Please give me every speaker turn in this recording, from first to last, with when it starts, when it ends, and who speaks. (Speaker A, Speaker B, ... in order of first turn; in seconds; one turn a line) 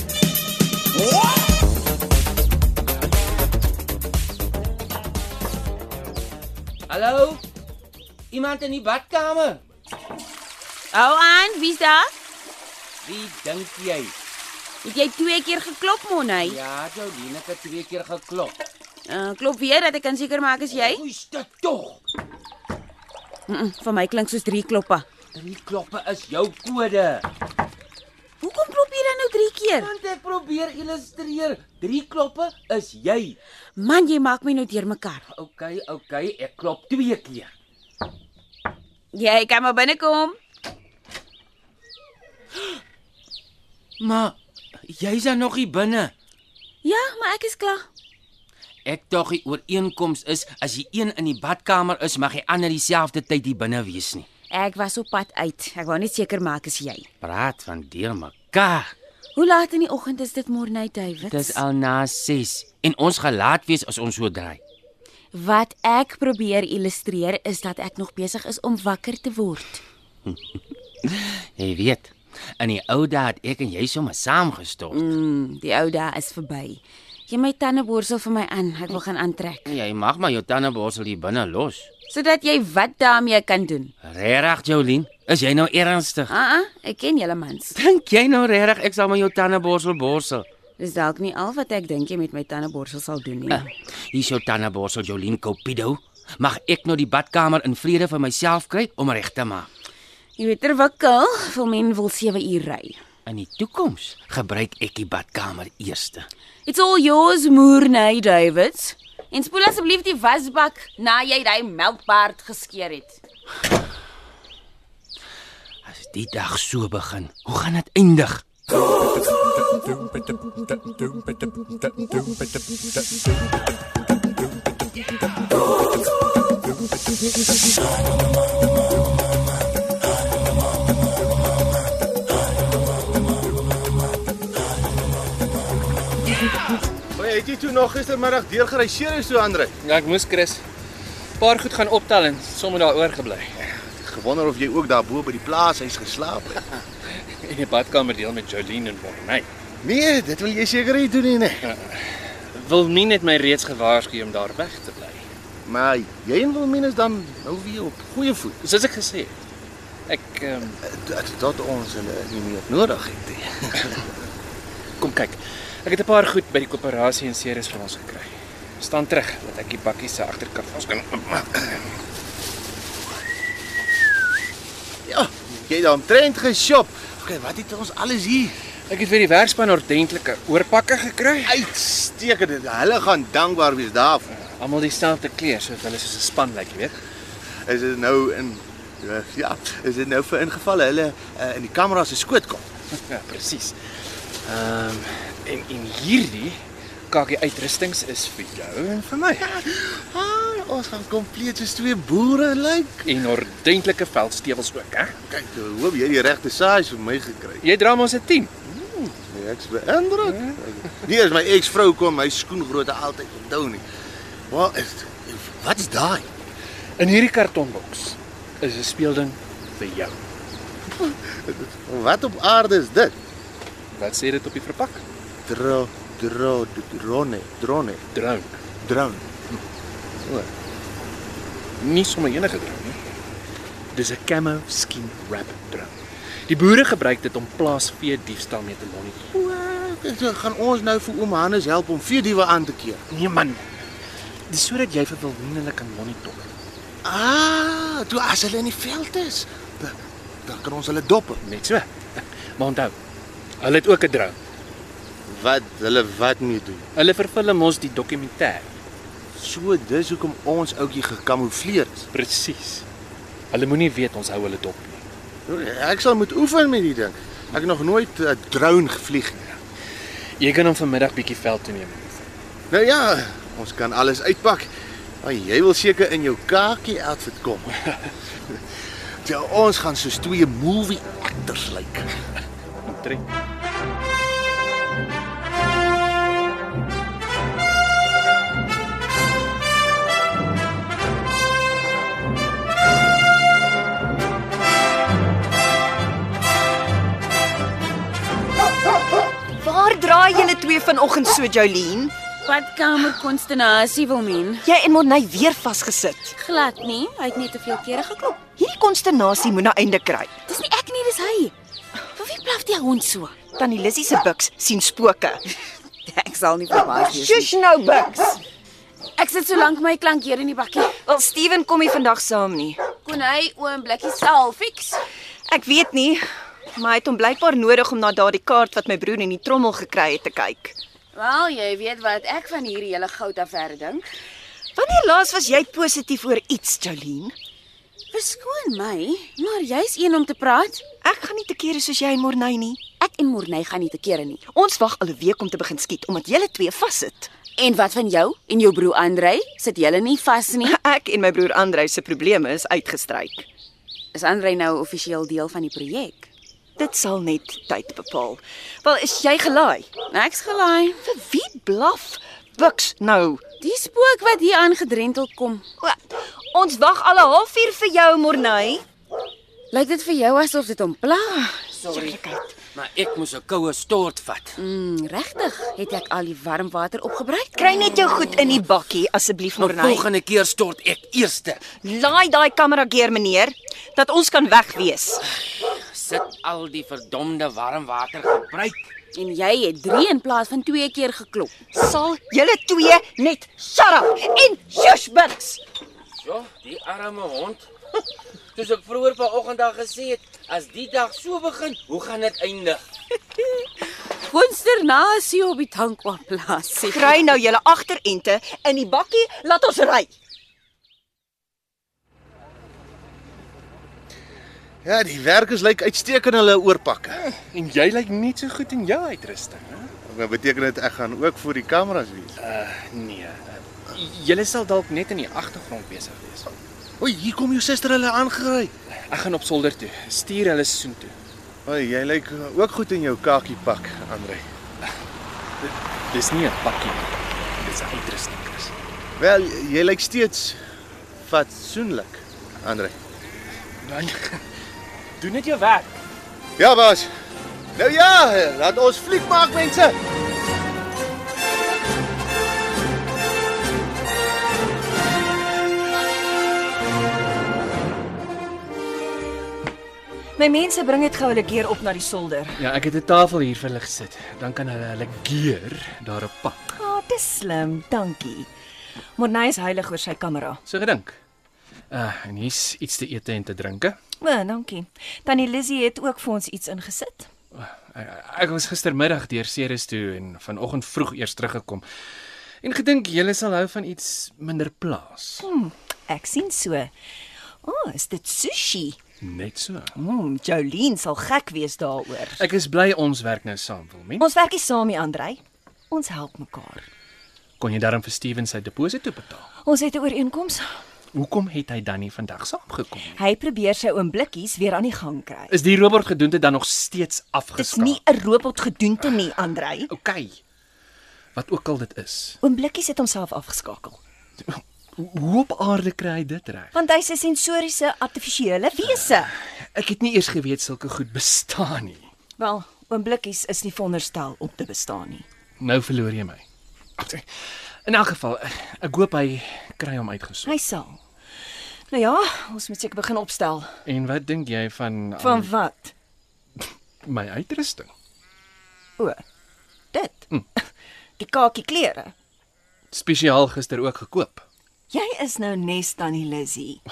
Speaker A: 6.9-7.4
Speaker A: 8.3-9.6
Speaker B: 10.9-12.1
Speaker A: 13.0-14.1
Speaker B: 14.8-16.6
Speaker A: 16.4-18.6
Speaker B: 19.1-21.0
Speaker A: 20.7-22.0
Speaker B: 23.5-25.1
Speaker A: 25.3-27.3
Speaker B: 28.4-29.9
Speaker A: 29.8-33.4
Speaker B: 33.8-35.2
Speaker A: 35.3-37.5
Speaker B: 39.1-40.4
Speaker A: 44.0-44.4
Speaker A: 44.9-46.1
Speaker B: 46.8-47.9
Speaker A: 48.8-54.3
Speaker B: 54.5-57.1
Speaker A: 57.2-58.9
Speaker B: 59.3-61.6
Speaker A: 61.2-64.6
Speaker B: 65.3-69.8
Speaker A: 71.0-75.1
Speaker B: 74.9-79.7
Speaker A: 79.7-81.9
Speaker B: 82.1-83.9
Speaker A: 84.0-86.3
Speaker B: 86.3-87.8
Speaker A: 87.7-90.5
Speaker B: 90.8-93.7
Speaker A: 93.5-99.7
Speaker B: 100.4-103.0
Speaker A: 103.2-106.3
Speaker B: 106.7-113.2
Speaker A: 115.8-118.4
Speaker C: 137.1-139.7
Speaker D: 139.8-140.6
Speaker D: 141.4-143.5
Speaker C: 143.7-146.7
Speaker D: 147.1-149.5
Speaker C: 149.8-151.6
Speaker D: 151.6-155.2
Speaker C: 155.6-158.6
Speaker D: 158.6-159.3
Speaker D: 160.1-160.8
Speaker C: 160.8-164.0
Speaker D: 165.0-171.8
Speaker C: 175.0-178.6
Speaker D: 178.9-181.6
Speaker C: 181.4-184.2
Speaker D: 184.3-187.0
Speaker C: 187.6-192.7
Speaker D: 193.1-193.8
Speaker D: 194.4-199.5
Speaker C: 199.4-203.1
Speaker D: 203.0-205.1
Speaker C: 205.3-207.6
Speaker D: 207.6-208.5
Speaker C: 208.7-213.8
Speaker C: 214.5-216.3
Speaker D: 217.0-220.2
Speaker C: 221.0-223.1
Speaker D: 223.9-225.0
Speaker C: 225.4-228.0
Speaker D: 228.1-228.6
Speaker C: 228.8-229.3
Speaker C: 230.2-230.5
Speaker D: 231.8-233.0
Speaker D: 233.9-236.0
Speaker D: 236.5-239.3
Speaker C: 239.3-243.0
Speaker D: 243.1-243.6
Speaker D: 244.5-246.5
Speaker C: 247.0-251.4
Speaker D: 251.4-252.9
Speaker D: 253.6-254.4
Speaker C: 255.2-256.9
Speaker D: 256.9-258.7
Speaker C: 259.3-262.0
Speaker D: 262.1-262.9
Speaker D: 263.5-265.0
Speaker C: 265.5-269.4
Speaker D: 270.4-272.2
Speaker C: 272.7-277.8
Speaker C: 279.2-282.1
Speaker D: 282.8-283.2
Speaker E: 299.6-302.1
Speaker B: 302.4-304.7
Speaker E: 304.6-306.4
Speaker B: 306.3-308.4
Speaker E: 308.6-310.3
Speaker B: 310.4-311.5
Speaker B: 312.1-313.4
Speaker E: 313.5-315.4
Speaker B: 316.0-317.5
Speaker E: 316.8-318.4
Speaker B: 319.2-320.9
Speaker E: 321.0-322.8
Speaker B: 323.0-325.0
Speaker E: 325.5-326.2
Speaker E: 326.8-330.8
Speaker B: 331.1-334.0
Speaker E: 334.8-337.3
Speaker B: 338.1-340.8
Speaker E: 341.0-342.8
Speaker B: 343.0-344.4
Speaker E: 344.5-347.3
Speaker B: 347.6-350.8
Speaker E: 350.6-353.5
Speaker B: 354.1-356.3
Speaker E: 356.8-359.9
Speaker B: 360.1-361.0
Speaker E: 361.0-363.4
Speaker B: 363.6-365.6
Speaker E: 365.8-368.8
Speaker B: 369.7-371.7
Speaker E: 371.6-372.5
Speaker A: 371.9-372.1
Speaker A: 372.7-374.6
Speaker B: 374.6-377.9
Speaker E: 377.6-380.1
Speaker A: 379.6-381.6
Speaker E: 381.8-385.2
Speaker A: 385.5-388.9
Speaker B: 389.1-391.5
Speaker E: 391.7-395.6
Speaker A: 396.2-397.7
Speaker A: 398.5-402.8
Speaker B: 403.5-407.2
Speaker E: 406.8-410.1
Speaker C: 414.8-417.2
Speaker D: 417.3-419.9
Speaker C: 420.1-422.4
Speaker D: 422.4-426.5
Speaker C: 427.0-428.7
Speaker D: 429.1-431.1
Speaker C: 431.6-434.4
Speaker D: 436.1-438.7
Speaker C: 439.2-440.6
Speaker C: 441.2-442.9
Speaker D: 443.8-444.4
Speaker D: 445.2-446.0
Speaker C: 446.6-447.1
Speaker C: 447.7-450.0
Speaker E: 460.4-462.6
Speaker D: 462.6-466.8
Speaker E: 466.7-468.5
Speaker E: 469.2-470.6
Speaker D: 470.6-471.2
Speaker D: 471.9-474.0
Speaker E: 474.2-477.3
Speaker D: 477.5-481.8
Speaker D: 482.6-485.5
Speaker E: 485.4-486.9
Speaker E: 487.6-489.0
Speaker D: 489.2-489.9
Speaker E: 489.9-492.4
Speaker D: 492.4-494.2
Speaker E: 494.2-496.9
Speaker D: 497.6-499.4
Speaker E: 499.6-500.6
Speaker D: 501.1-503.2
Speaker E: 503.1-505.6
Speaker D: 505.5-508.0
Speaker E: 507.6-509.9
Speaker D: 509.9-510.4
Speaker D: 511.3-512.4
Speaker E: 512.4-514.0
Speaker D: 514.5-516.7
Speaker E: 516.7-519.3
Speaker D: 519.3-522.1
Speaker E: 522.4-525.2
Speaker D: 525.6-526.4
Speaker D: 527.0-527.2
Speaker D: 527.9-530.6
Speaker E: 530.4-531.0
Speaker E: 531.9-533.7
Speaker D: 533.9-535.5
Speaker E: 535.2-535.9
Speaker D: 536.6-537.9
Speaker E: 539.9-540.6
Speaker E: 541.2-542.1
Speaker D: 542.9-544.5
Speaker E: 544.9-546.8